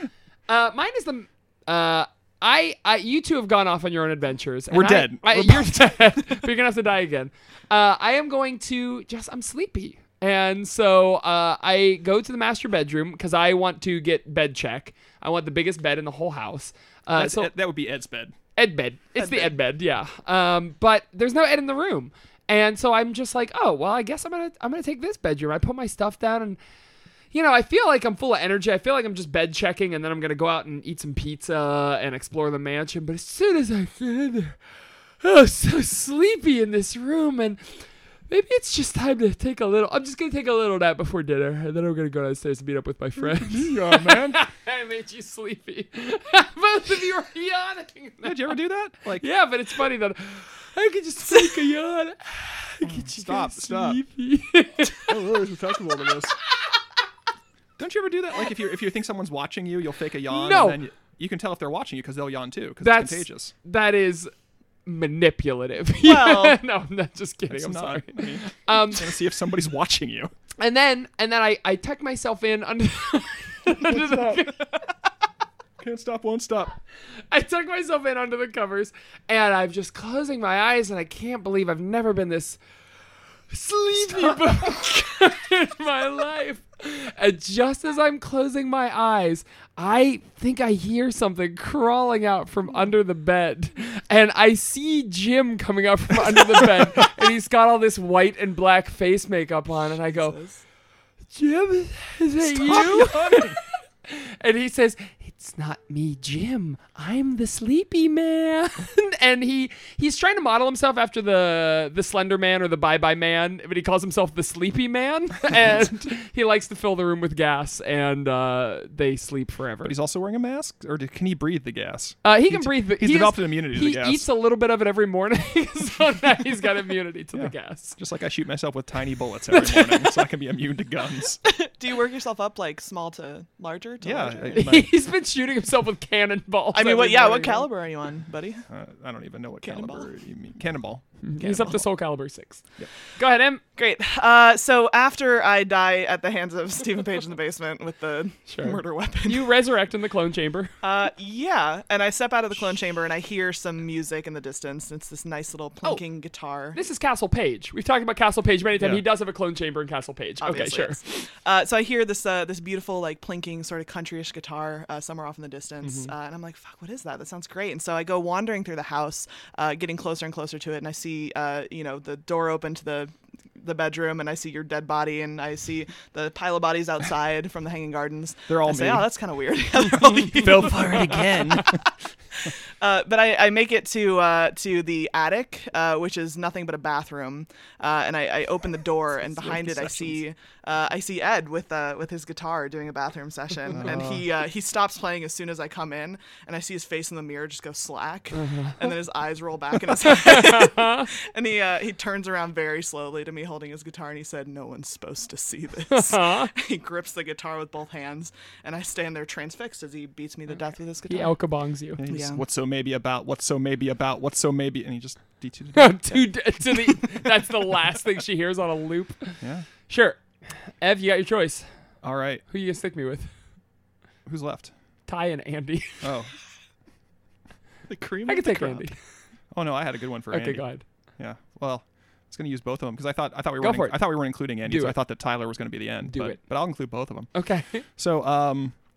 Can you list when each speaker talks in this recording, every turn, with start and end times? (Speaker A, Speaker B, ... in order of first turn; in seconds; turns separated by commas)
Speaker A: 0.5-17.5, Speaker B: 4.7-6.2, Speaker B: 17.1-18.4, Speaker A: 18.6-26.6, Speaker C: 19.2-19.5, Speaker A: 27.3-34.6, Speaker A: 35.2-48.5, Speaker B: 43.2-44.4, Speaker B: 48.2-49.3, Speaker A: 49.2-55.1, Speaker B: 52.8-54.0, Speaker B: 55.0-56.4, Speaker B: 57.8-63.5, Speaker A: 60.3-60.8, Speaker A: 62.8-64.3, Speaker A: 64.9-69.1, Speaker C: 66.0-66.6, Speaker B: 67.5-70.3, Speaker A: 70.6-74.8, Speaker B: 73.9-74.5, Speaker B: 75.8-76.8, Speaker A: 77.3-82.6, Speaker A: 83.5-100.4, Speaker C: 100.0-100.6, Speaker A: 101.3-119.9, Speaker B: 102.4-103.6, Speaker B: 119.8-124.3, Speaker A: 122.2-128.0, Speaker B: 127.3-131.4, Speaker A: 129.5-130.2, Speaker C: 131.4-134.6, Speaker B: 134.0-134.9, Speaker A: 134.5-137.7, Speaker C: 136.7-138.7, Speaker B: 138.7-141.0, Speaker C: 139.6-140.1, Speaker A: 141.2-142.6, Speaker C: 141.4-141.8, Speaker A: 143.2-143.6, Speaker C: 143.8-149.5, Speaker A: 148.5-150.8, Speaker C: 150.8-156.8, Speaker A: 156.7-161.0, Speaker B: 158.8-159.0, Speaker C: 160.4-181.8, Speaker A: 165.8-166.1, Speaker B: 178.5-179.1, Speaker B: 180.3-181.8, Speaker C: 182.4-211.3, Speaker B: 189.3-190.2, Speaker B: 193.7-194.3, Speaker A: 198.3-198.8, Speaker A: 200.1-201.1, Speaker A: 205.9-206.5, Speaker A: 211.1-212.0, Speaker B: 212.0-216.2, Speaker C: 212.1-212.4, Speaker A: 215.7-220.2, Speaker B: 219.4-219.7, Speaker A: 220.8-221.7, Speaker B: 222.0-222.4, Speaker A: 222.5-223.3, Speaker B: 224.3-224.7, Speaker A: 225.1-226.1, Speaker B: 226.0-226.3, Speaker B: 227.9-228.8, Speaker C: 227.9-228.8, Speaker A: 228.3-229.0, Speaker B: 229.5-230.6, Speaker A: 230.3-230.8, Speaker B: 231.2-237.3, Speaker A: 233.6-234.1, Speaker A: 234.7-235.0, Speaker A: 236.1-236.4, Speaker A: 237.3-237.9, Speaker B: 238.0-238.8